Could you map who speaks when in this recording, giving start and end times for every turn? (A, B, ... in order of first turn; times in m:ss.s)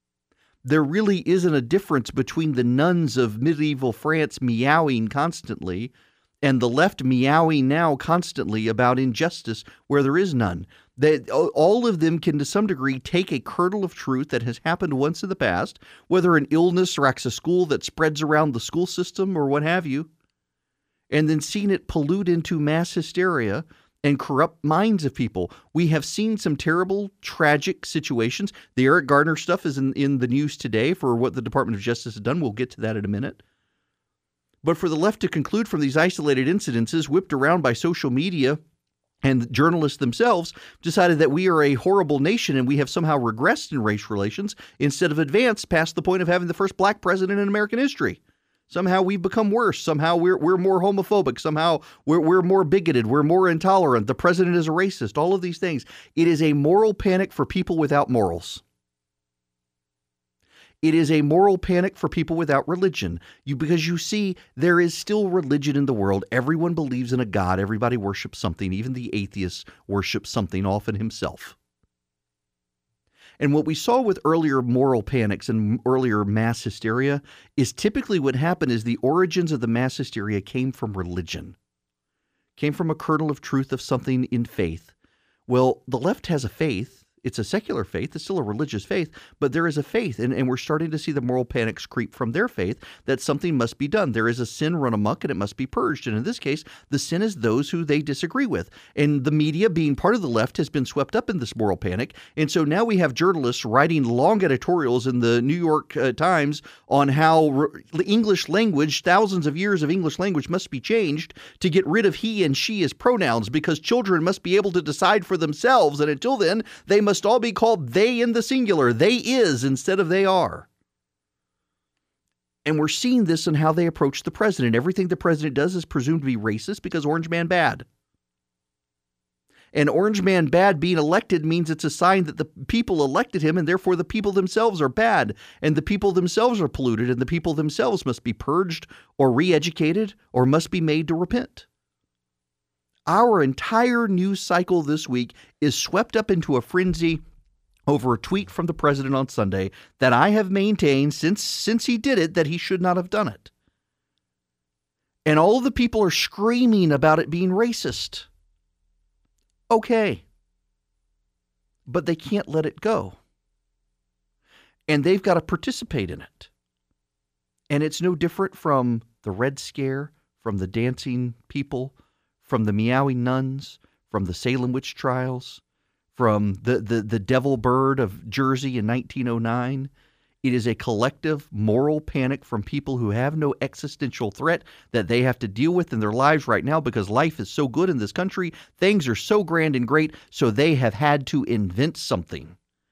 0:00.6-0:05.9 A
0:06.4-0:20.1 A
0:21.1-0:33.4 A
0:34.6-0:38.6 A
0:39.2-0:58.6 A
1:00.8-1:11.6 A
1:13.4-1:21.6 A
1:22.6-1:24.9 A
1:25.5-2:00.7 A
2:02.6-2:07.9 A
2:09.7-2:21.7 A
2:23.1-2:27.2 A
2:27.9-2:33.5 A
2:35.3-2:38.3 A
2:39.7-2:40.2 A
2:41.9-2:43.2 A
2:44.9-2:46.5 A
2:47.7-2:55.6 A
2:56.2-2:59.9 A
3:00.4-3:12.6 A